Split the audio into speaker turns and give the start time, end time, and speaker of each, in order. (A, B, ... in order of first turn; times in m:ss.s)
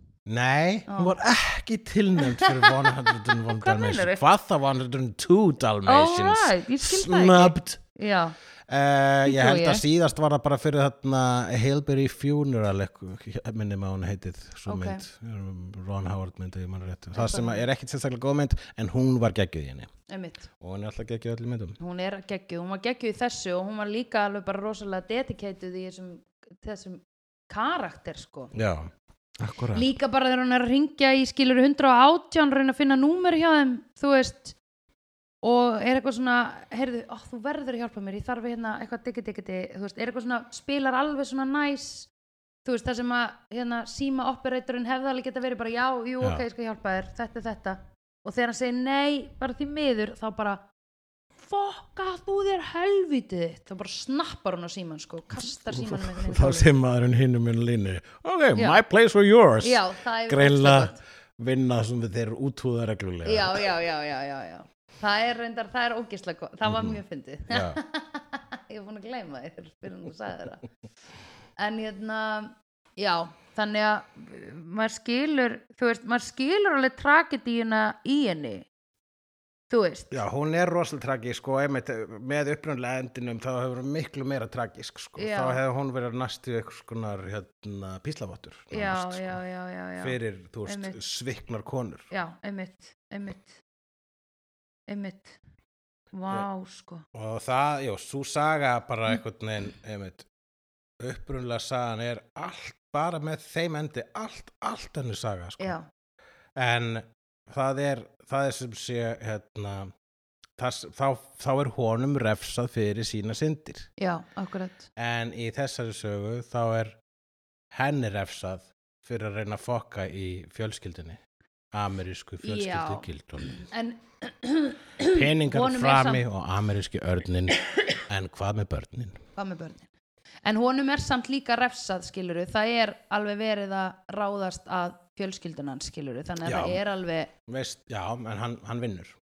0:00.2-0:07.8 A
0:00.9-0:01.1 B
0:02.2-0:04.2 B
0:05.8-0:08.4 B
0:08.7-0:19.9 A
0:09.2-0:09.8 B
0:14.7-0:15.0 B
0:17.1-0:17.6 B
0:20.1-0:20.5 B
0:20.6-0:21.8 A
0:21.8-0:28.5 B
0:28.5-0:29.9 A
0:29.7-0:34.6 B
0:35.4-0:42.1 B
0:42.6-0:50.6 B
0:51.4-0:56.7 B
0:55.7-1:03.7 A
0:59.6-1:01.0 B
1:03.2-1:10.6 B
1:06.6-1:07.0 A
1:07.5-1:07.8 A
1:11.6-1:18.7 B
1:19.7-1:20.2 B
1:20.1-1:29.4 A
1:25.2-1:25.6 B
1:28.7-1:31.0 B
1:30.0-1:32.1 A
1:32.1-1:33.6 B
1:34.9-1:35.4 B
1:36.1-1:37.0 B
1:37.1-1:40.3 A
1:41.0-1:45.8 A
1:45.6-1:45.9 B
1:46.6-1:49.9 A
1:50.6-1:53.9 A
1:54.0-1:54.9 B
1:55.0-1:57.0 A
1:57.7-2:01.2 A
2:01.7-2:03.6 A
2:02.4-2:06.2 B
2:05.0-2:09.2 A
2:09.4-2:09.9 B
2:10.4-2:17.3 B
2:16.4-2:16.8 A
2:17.5-2:19.2 A